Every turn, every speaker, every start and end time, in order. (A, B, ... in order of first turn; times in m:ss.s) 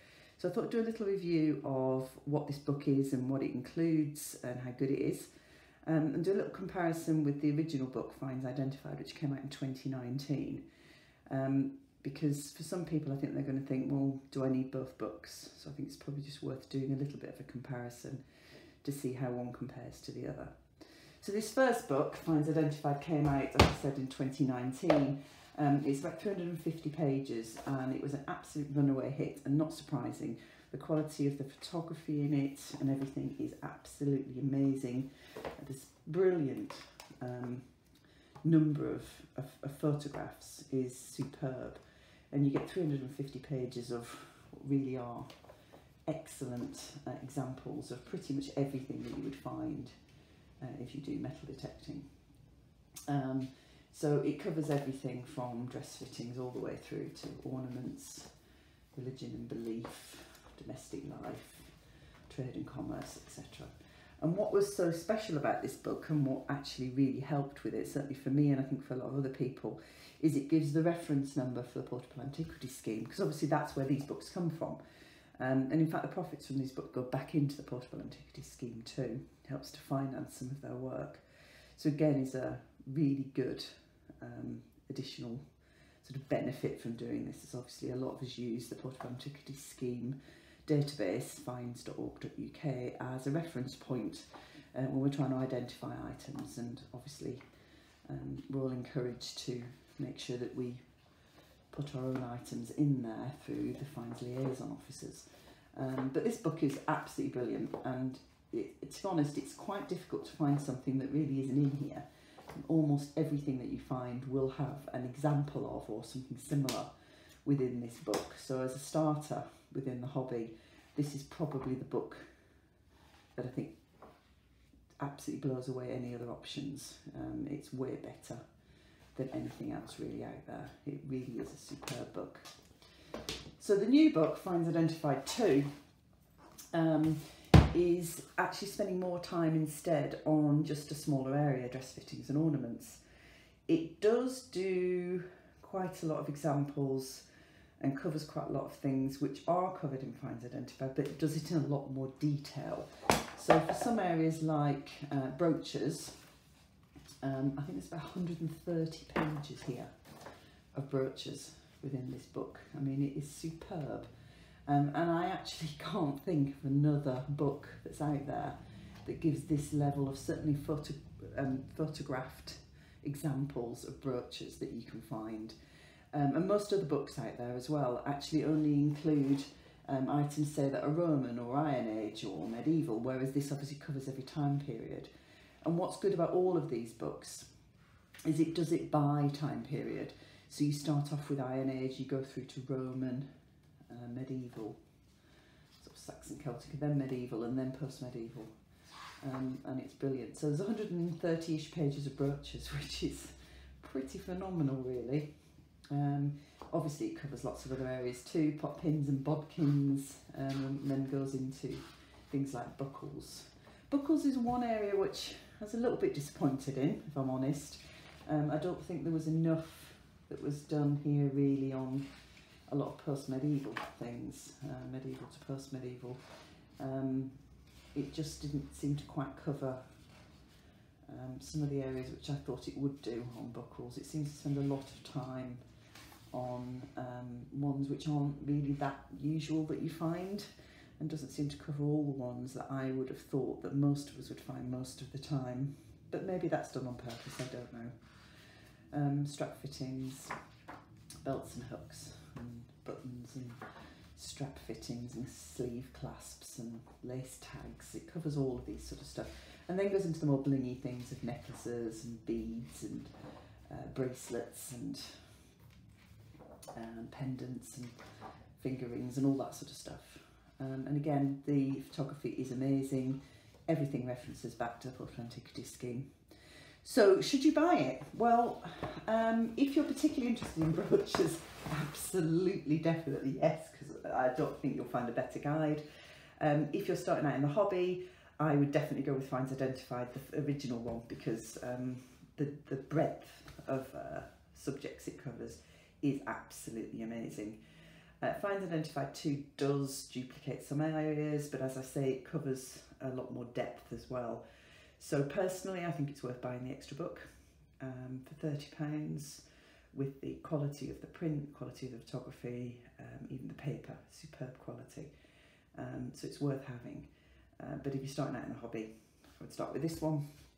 0:00.4-0:05.3 A
0:05.8-0:10.6 A
0:11.3-0:18.2 A
0:18.8-0:37.7 A
0:38.4-0:45.3 A
0:46.0-0:50.0 A
0:50.6-0:52.1 A
0:53.1-0:58.3 A
0:58.9-1:01.8 A
1:02.3-1:14.8 A
1:15.4-1:25.4 A
1:26.0-1:37.4 A
1:38.0-1:40.8 A
1:41.7-1:56.9 A
1:57.4-2:02.4 A
2:03.3-2:03.8 A
2:05.0-2:08.4 A
2:09.1-2:12.5 A
2:13.6-2:15.7 A
2:16.7-2:23.0 A
2:23.7-2:27.2 A
2:27.8-2:36.2 A
2:37.2-2:39.9 A
2:40.7-2:44.1 A
2:44.7-2:55.6 A
2:56.1-3:05.1 A
3:05.6-3:07.5 A
3:08.2-3:13.3 A
3:13.9-3:14.8 A
3:15.8-3:18.5 A
3:19.2-3:25.3 A
3:25.9-3:42.1 A
3:42.7-3:46.2 A
3:46.8-3:47.4 A
3:47.9-3:49.8 A
3:51.1-3:55.6 A
3:56.3-4:10.4 A
4:11.2-4:13.6 A
4:14.1-4:23.1 A
4:23.7-4:25.2 A
4:26.7-4:27.9 A
4:28.6-4:36.1 A
4:36.8-4:45.8 A
4:46.4-4:57.6 A
4:58.2-5:04.4 A
5:05.0-5:07.3 A
5:07.8-5:15.1 A
5:15.7-5:20.2 A